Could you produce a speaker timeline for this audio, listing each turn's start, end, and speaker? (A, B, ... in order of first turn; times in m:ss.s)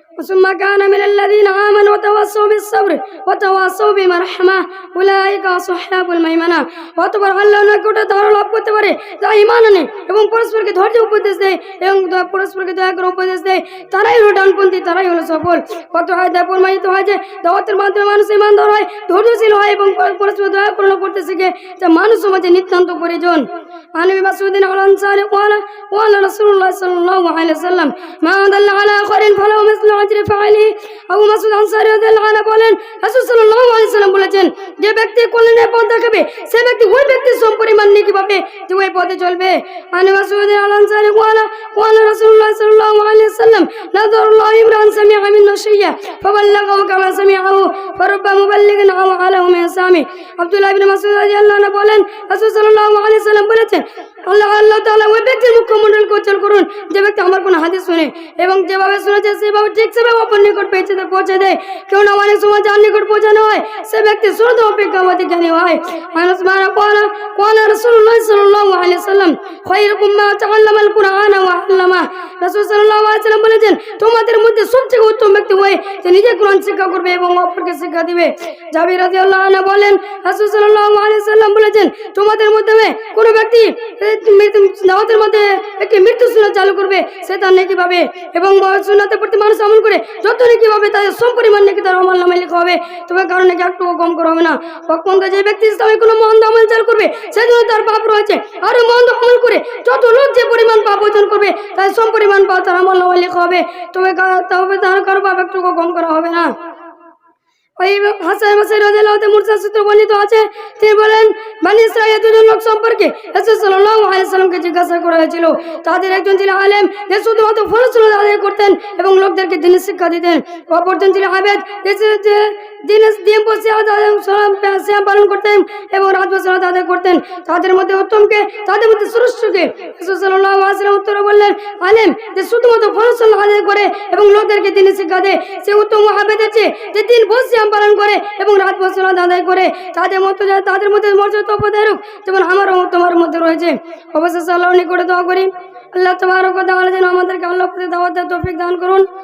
0:00.2-1:46.5 A
1:47.8-2:29.1 A